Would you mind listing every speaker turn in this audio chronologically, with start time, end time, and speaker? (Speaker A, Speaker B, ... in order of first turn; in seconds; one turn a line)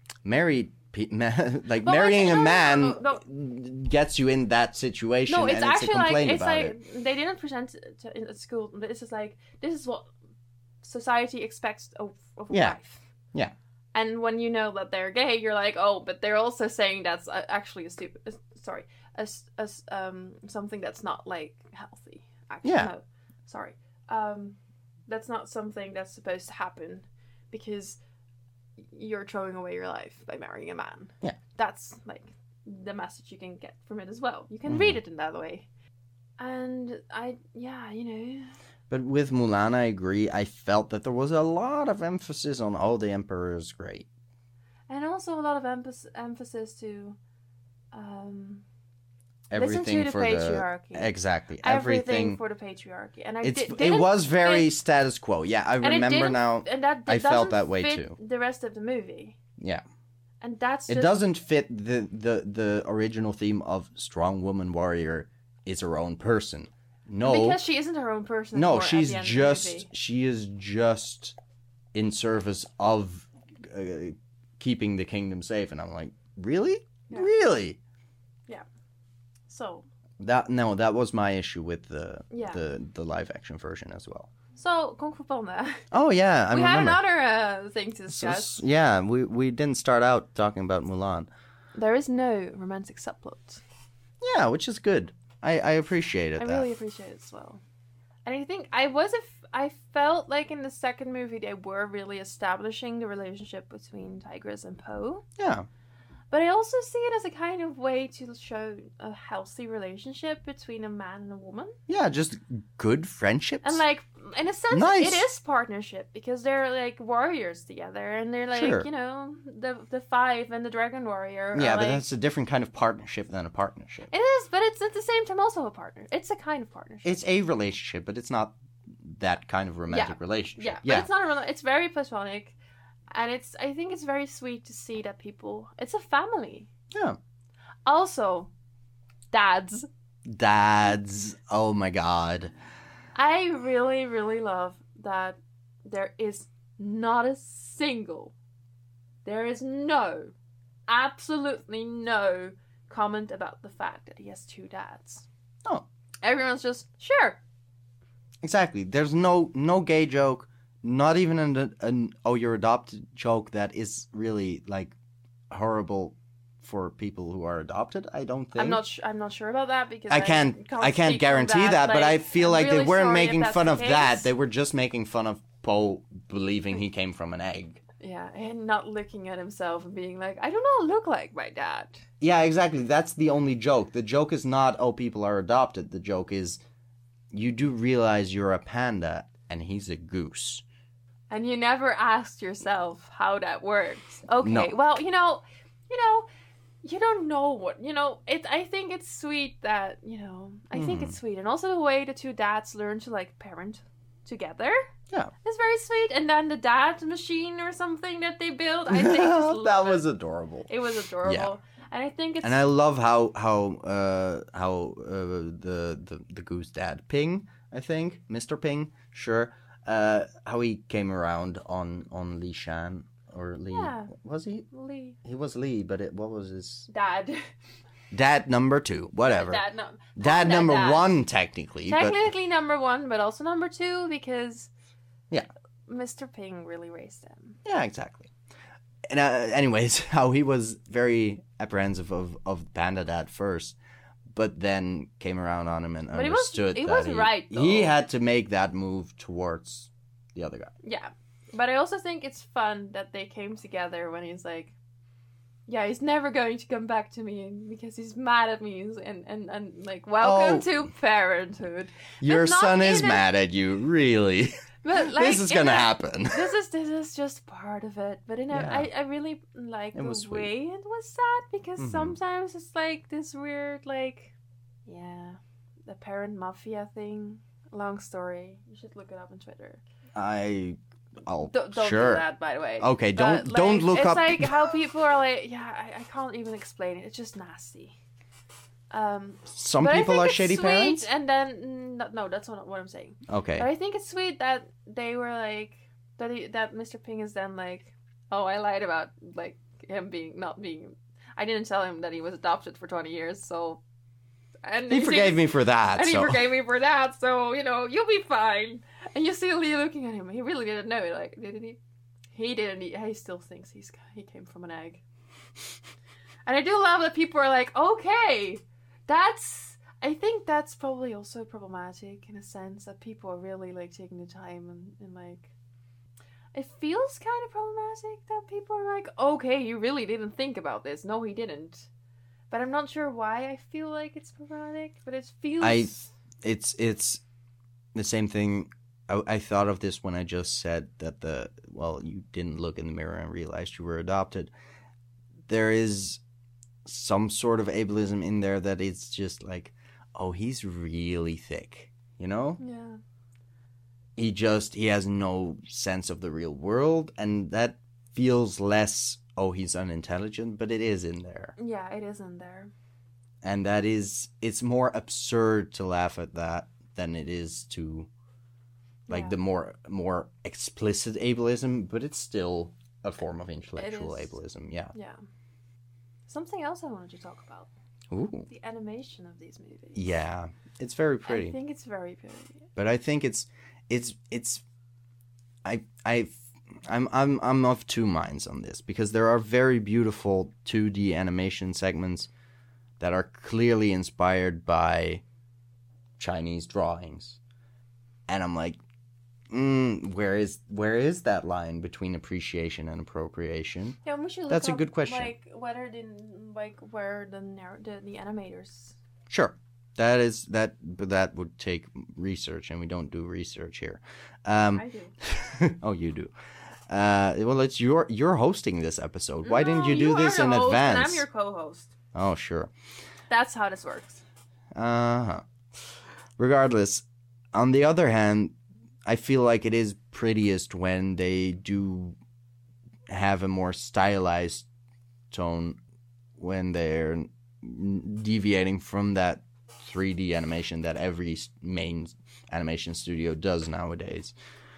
Speaker A: 0.2-6.8
Speaker B: 1.8-3.2
Speaker B: 5.3-10.1
Speaker B: 10.8-13.0
Speaker A: 12.5-12.8
Speaker B: 13.9-24.6
Speaker A: 22.6-22.9
Speaker B: 25.1-28.0
Speaker B: 28.9-35.6
Speaker A: 34.7-35.0
Speaker B: 36.4-38.5
Speaker A: 38.9-44.0
Speaker B: 44.9-47.2
Speaker B: 47.9-48.6
Speaker A: 49.5-52.4
Speaker B: 49.5-54.7
Speaker A: 53.4-58.2
Speaker B: 55.8-59.4
Speaker A: 59.6-59.8
Speaker B: 60.4-61.2
Speaker A: 60.9-67.6
Speaker B: 67.2-69.9
Speaker A: 68.5-71.3
Speaker A: 71.9-77.8
Speaker B: 79.5-79.8
Speaker A: 80.2-84.3
Speaker B: 82.3-82.6
Speaker B: 84.5-85.8
Speaker A: 85.9-87.0
Speaker B: 86.5-88.6
Speaker A: 88.1-91.3
Speaker B: 91.7-93.6
Speaker A: 94.2-96.7
Speaker B: 96.4-97.6
Speaker B: 98.2-105.2
Speaker A: 105.4-105.7
Speaker B: 106.3-111.8
Speaker A: 111.9-113.8
Speaker B: 113.6-122.0
Speaker A: 114.7-115.2
Speaker A: 118.5-118.9
Speaker A: 121.5-124.1
Speaker B: 124.1-127.2
Speaker A: 127.0-131.1
Speaker B: 129.9-132.6
Speaker B: 133.1-136.7
Speaker A: 136.9-137.2
Speaker B: 137.8-138.5
Speaker B: 139.3-139.9
Speaker A: 140.2-142.5
Speaker B: 143.1-148.3
Speaker B: 149.2-150.3
Speaker B: 150.9-155.2
Speaker B: 156.2-157.4
Speaker A: 158.4-164.9
Speaker A: 165.5-168.8
Speaker B: 168.6-174.3
Speaker A: 170.1-177.8
Speaker B: 178.0-182.0
Speaker A: 182.2-186.6
Speaker A: 187.3-190.6
Speaker B: 191.3-196.3
Speaker A: 194.4-194.7
Speaker B: 196.8-204.9
Speaker A: 200.7-201.2
Speaker B: 205.4-210.1
Speaker A: 208.9-210.7
Speaker B: 210.7-212.6
Speaker A: 211.2-211.5
Speaker A: 212.4-224.7
Speaker B: 223.7-224.1
Speaker B: 224.7-225.2
Speaker A: 225.2-226.9
Speaker B: 226.9-227.5
Speaker A: 228.1-229.6
Speaker B: 229.2-231.2
Speaker A: 230.2-232.2
Speaker B: 231.9-234.7
Speaker B: 235.9-237.6
Speaker A: 237.6-238.3
Speaker A: 239.1-243.8
Speaker A: 244.3-250.7
Speaker B: 246.1-247.9
Speaker B: 250.8-254.7
Speaker B: 255.7-263.2
Speaker A: 260.2-260.9
Speaker A: 262.2-266.5
Speaker B: 264.8-274.3
Speaker A: 268.5-268.9
Speaker A: 269.9-270.5
Speaker A: 271.8-272.1
Speaker B: 274.9-279.8
Speaker A: 280.1-282.2
Speaker B: 281.4-287.9
Speaker A: 282.8-284.6
Speaker B: 288.9-303.8
Speaker A: 289.5-291.0
Speaker A: 293.3-293.7
Speaker B: 304.6-305.4
Speaker A: 304.9-306.4
Speaker B: 305.9-311.8
Speaker B: 312.3-315.0
Speaker B: 316.4-325.5
Speaker B: 326.5-331.9
Speaker B: 332.5-336.1
Speaker A: 335.6-337.2
Speaker A: 337.9-344.5
Speaker A: 345.5-346.2
Speaker A: 346.8-352.6
Speaker B: 352.6-353.0
Speaker A: 354.2-361.5
Speaker B: 361.6-362.7
Speaker A: 363.4-368.1
Speaker A: 369.1-374.9
Speaker B: 369.1-369.3
Speaker B: 373.8-374.3
Speaker B: 374.9-375.2
Speaker B: 376.3-377.7
Speaker A: 378.1-378.5
Speaker B: 378.5-380.0
Speaker A: 379.9-381.6
Speaker B: 381.2-382.7
Speaker A: 382.8-384.6
Speaker A: 385.6-392.3
Speaker A: 393.0-395.2
Speaker A: 396.2-397.4
Speaker A: 398.3-398.8
Speaker A: 399.5-404.0
Speaker B: 404.0-408.9
Speaker A: 404.5-405.3
Speaker A: 409.3-416.3
Speaker B: 414.7-415.1
Speaker A: 416.9-421.2
Speaker B: 419.4-421.9
Speaker A: 422.1-422.7
Speaker B: 423.3-424.2
Speaker A: 424.7-425.4
Speaker A: 426.4-432.2
Speaker A: 433.1-434.6
Speaker A: 435.3-435.8
Speaker A: 436.4-444.3